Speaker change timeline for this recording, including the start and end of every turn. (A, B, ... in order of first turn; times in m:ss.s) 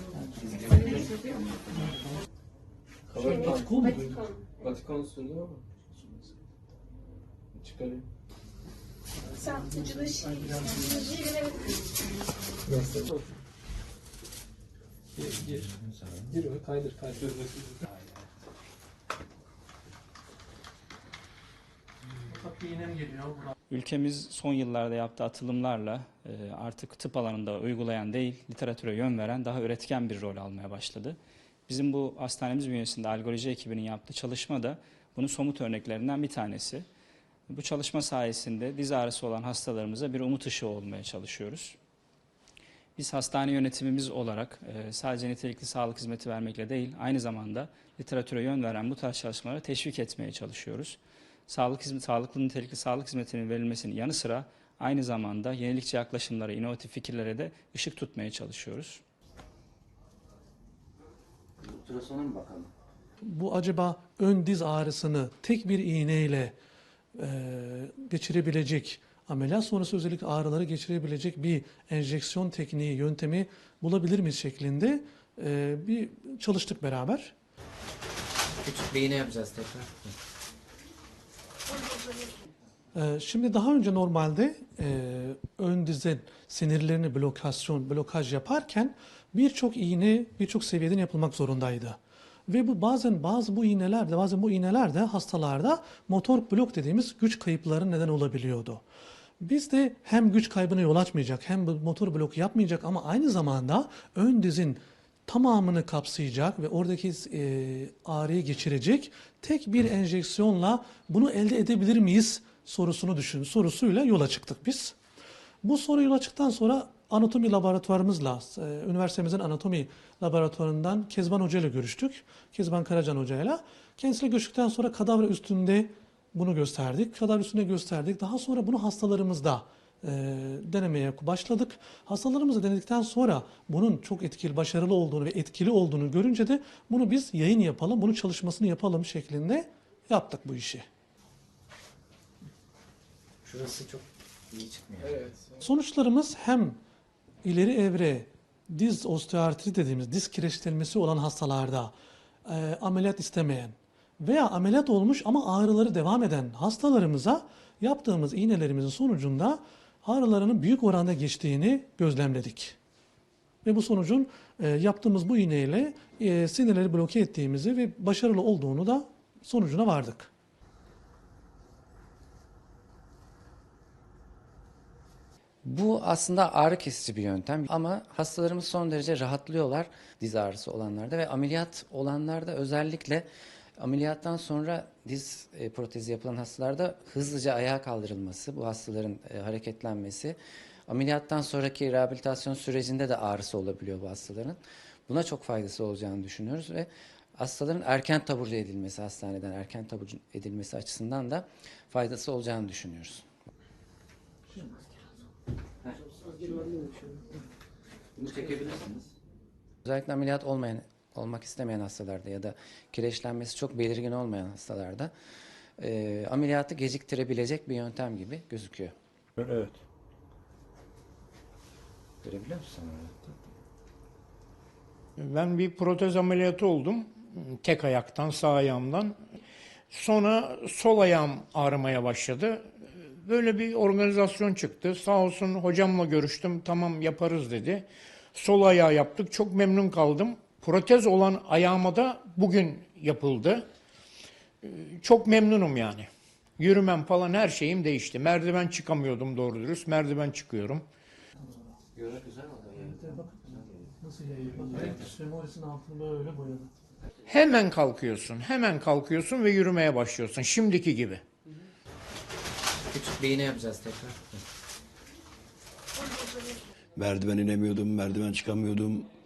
0:00.2-0:01.0 A
0:03.1-0:06.2 B
0:03.2-0:04.2 C
0:03.2-0:04.4 D
0:07.5-0:08.0 B
0:09.4-0:11.5 D
0:12.7-0:13.0 B
0:15.2-0:17.8 B
0:22.3-0:23.5 C
0:23.7-0:36.8 E
0:37.5-0:41.8 E
0:43.0-0:59.0 E
1:01.6-1:02.7 A
1:03.2-1:06.5 C
1:07.2-1:17.3 C
1:18.6-1:20.1 A
1:22.9-1:38.8 C
1:39.4-1:55.0 C
1:55.6-2:20.8 C
2:23.4-2:25.2 A
2:25.0-2:25.3 B
2:25.6-2:26.8 C
2:27.4-2:31.9 C
2:32.4-2:42.8 C
2:43.6-2:50.3 C
2:55.6-3:03.2 A
3:03.8-3:23.2 A
3:26.6-3:27.2 B
3:28.2-3:29.0 A
3:29.8-3:35.1 A
3:35.8-3:38.9 A
3:42.2-3:43.4 A
3:45.4-3:47.0 F
3:47.7-3:49.1 F
3:50.1-3:52.5 F
3:53.3-3:57.8 F
3:58.4-4:03.6 F
4:04.7-4:06.1 F
4:06.6-4:10.8 F
4:12.0-4:12.7 A
4:12.7-4:16.7 C
4:17.3-4:21.2 F
4:22.9-4:24.4 A
4:27.0-4:29.1 G